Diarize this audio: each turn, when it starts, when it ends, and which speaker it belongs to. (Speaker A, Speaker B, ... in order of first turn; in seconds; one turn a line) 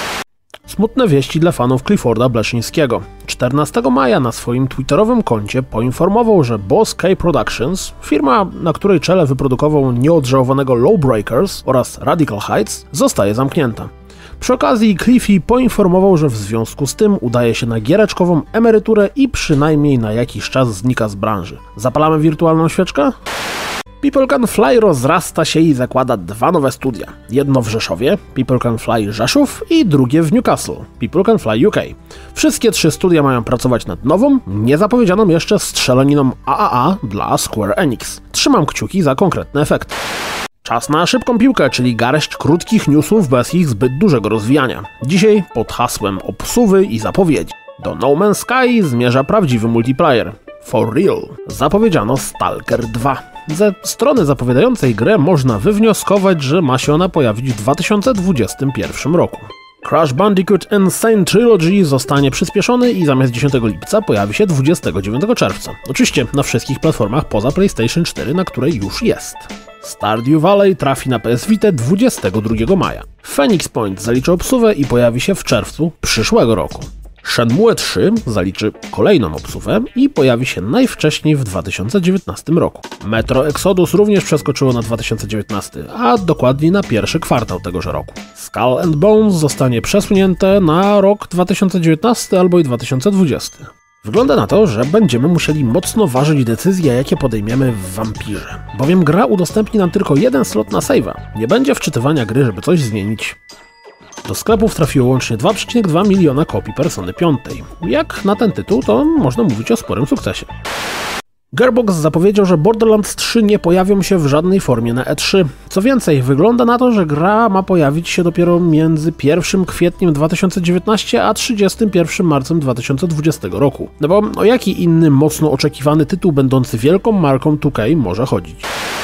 Speaker A: 0.7-23.2
Speaker A: 24.0-40.0
Speaker A: 40.6-103.4
Speaker A: 104.2-110.5
Speaker A: 111.5-128.7